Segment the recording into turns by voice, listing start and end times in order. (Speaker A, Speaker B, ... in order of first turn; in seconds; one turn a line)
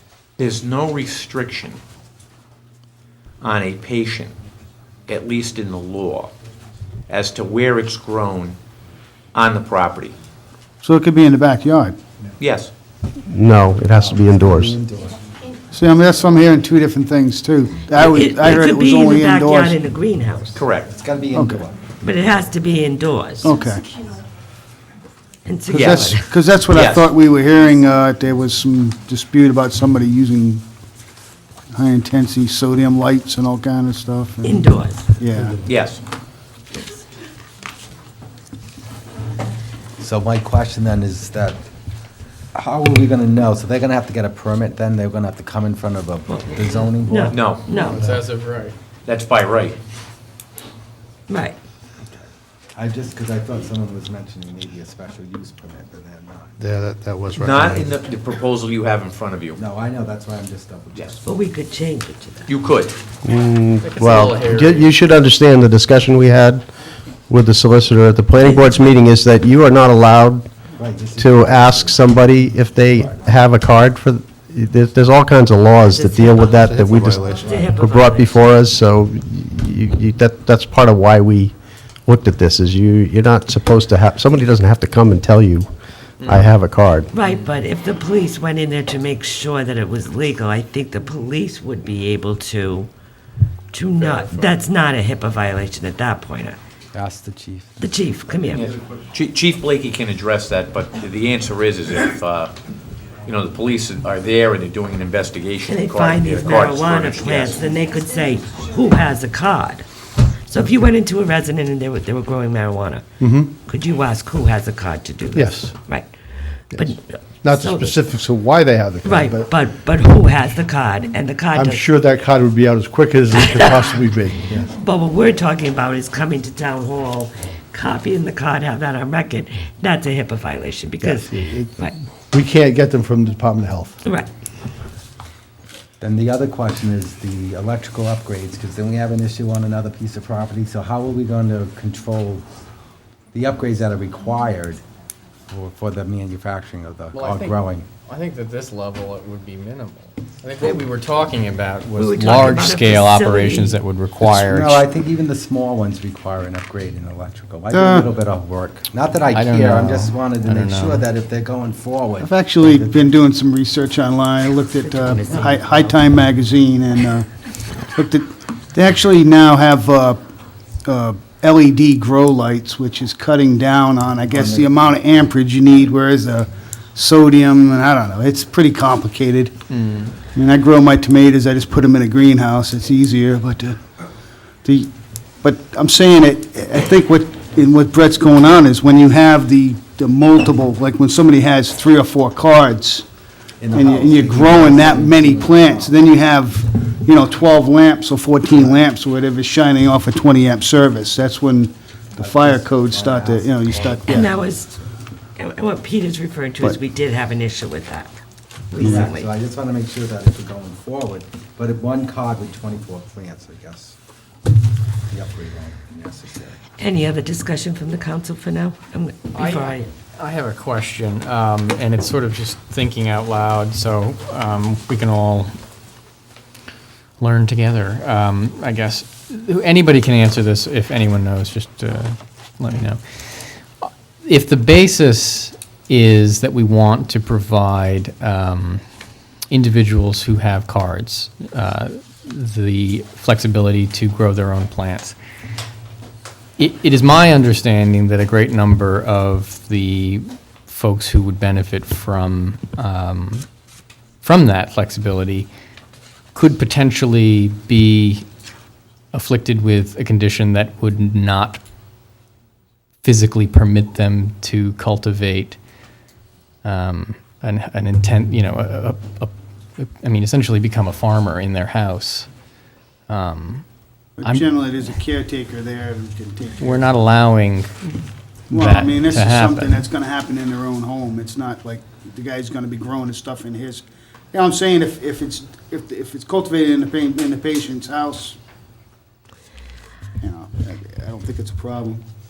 Speaker A: 0.4-1.8
Speaker A: 3.4-4.3
Speaker A: 5.1-6.3
Speaker A: 7.1-8.6
Speaker A: 9.3-10.1
Speaker B: 10.8-11.9
Speaker A: 12.4-12.7
Speaker C: 13.3-14.7
Speaker D: 13.9-15.2
Speaker B: 15.7-19.8
Speaker E: 17.9-20.6
Speaker A: 20.5-20.9
Speaker D: 20.8-21.8
Speaker B: 21.3-21.6
Speaker E: 22.0-23.5
Speaker B: 23.4-23.8
Speaker E: 25.4-26.3
Speaker A: 25.7-26.0
Speaker B: 25.7-30.6
Speaker A: 26.7-27.1
Speaker B: 31.7-35.6
Speaker E: 34.4-35.1
Speaker A: 35.6-36.0
Speaker D: 40.0-41.6
Speaker D: 42.5-47.4
Speaker E: 46.3-48.0
Speaker A: 47.3-47.8
Speaker F: 47.7-48.8
Speaker A: 49.0-49.8
Speaker E: 51.3-51.6
Speaker D: 52.7-56.6
Speaker G: 56.6-57.9
Speaker A: 57.4-59.6
Speaker D: 59.6-61.2
Speaker A: 60.9-61.2
Speaker E: 61.2-62.5
Speaker A: 62.5-63.0
Speaker C: 63.2-66.7
Speaker F: 63.8-64.9
Speaker C: 67.3-70.5
Speaker E: 68.4-68.8
Speaker D: 70.8-73.2
Speaker C: 71.2-77.2
Speaker E: 75.8-78.5
Speaker G: 76.5-78.0
Speaker D: 76.9-77.8
Speaker C: 77.9-81.5
Speaker C: 82.0-85.7
Speaker F: 86.2-86.5
Speaker C: 86.2-87.1
Speaker E: 87.1-92.9
Speaker E: 93.7-96.6
Speaker A: 94.0-94.5
Speaker D: 96.9-97.8
Speaker E: 97.8-98.7
Speaker A: 98.5-102.5
Speaker A: 103.2-107.5
Speaker E: 105.7-109.8
Speaker E: 110.5-113.1
Speaker G: 113.2-113.5
Speaker E: 113.6-116.1
Speaker G: 115.3-115.7
Speaker E: 116.7-117.9
Speaker G: 116.8-119.5
Speaker E: 119.0-121.8
Speaker G: 121.5-124.6
Speaker E: 123.3-123.9
Speaker E: 124.6-131.9
Speaker G: 131.0-131.7
Speaker G: 132.3-134.0
Speaker E: 134.0-134.3
Speaker D: 136.0-142.4
Speaker D: 143.3-144.8
Speaker D: 145.5-147.8
Speaker F: 147.1-154.8
Speaker E: 151.9-153.8
Speaker D: 154.2-163.1
Speaker B: 157.7-158.1
Speaker F: 159.3-161.0
Speaker B: 162.2-167.3
Speaker E: 164.8-166.0
Speaker B: 167.9-170.2
Speaker B: 170.8-179.5
Speaker D: 174.3-174.7
Speaker F: 179.7-180.1
Speaker B: 180.3-183.8
Speaker B: 184.6-184.9
Speaker B: 185.4-193.0
Speaker D: 193.6-196.0
Speaker B: 193.7-204.3
Speaker D: 202.2-204.3
Speaker E: 204.1-204.7
Speaker E: 205.4-208.2
Speaker E: 208.7-209.3
Speaker D: 208.8-214.0
Speaker D: 215.1-216.6
Speaker E: 216.8-219.9
Speaker F: 219.3-225.5
Speaker F: 227.2-233.0
Speaker F: 233.8-238.8
Speaker F: 239.5-245.2
Speaker F: 246.6-253.4
Speaker F: 254.2-255.5
Speaker F: 256.3-258.2
Speaker F: 259.1-261.6
Speaker F: 263.0-265.6
Speaker F: 266.6-272.3
Speaker F: 273.1-273.6
Speaker B: 274.2-276.9
Speaker F: 276.6-279.8
Speaker B: 278.5-288.4
Speaker B: 290.2-292.0